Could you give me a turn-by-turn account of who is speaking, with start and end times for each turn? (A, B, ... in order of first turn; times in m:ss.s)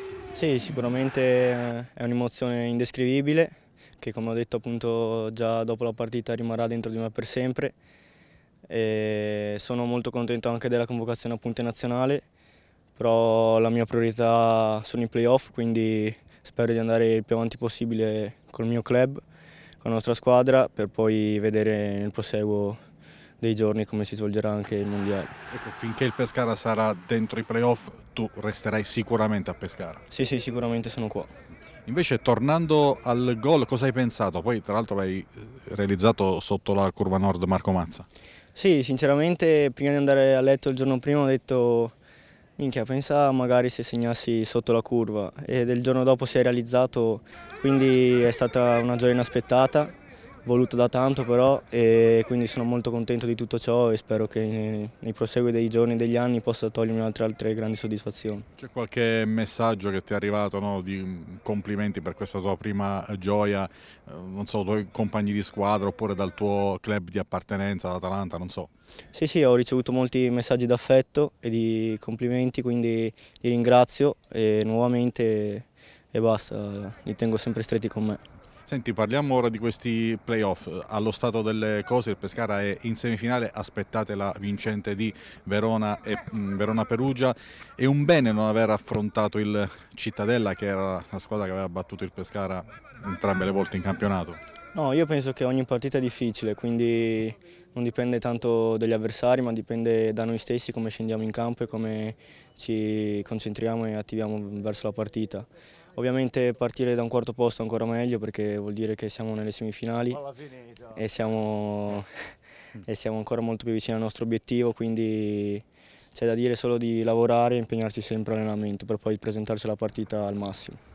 0:00.3-0:07.7 A
0:08.7-0:12.2 A
0:13.0-0:19.2 A
0:19.8-0:22.8 A
0:23.4-0:25.3 A
0:25.5-0:30.0 B
0:30.1-0:31.3 A
0:31.8-0:38.0 B
0:38.5-0:41.9 A
0:42.6-0:49.9 A
0:50.4-0:58.5 A
0:58.6-1:08.7 B
1:09.1-1:18.2 A
1:18.7-1:34.4 B
1:34.7-1:50.2 A
1:50.9-1:52.1 A
1:52.8-2:00.8 A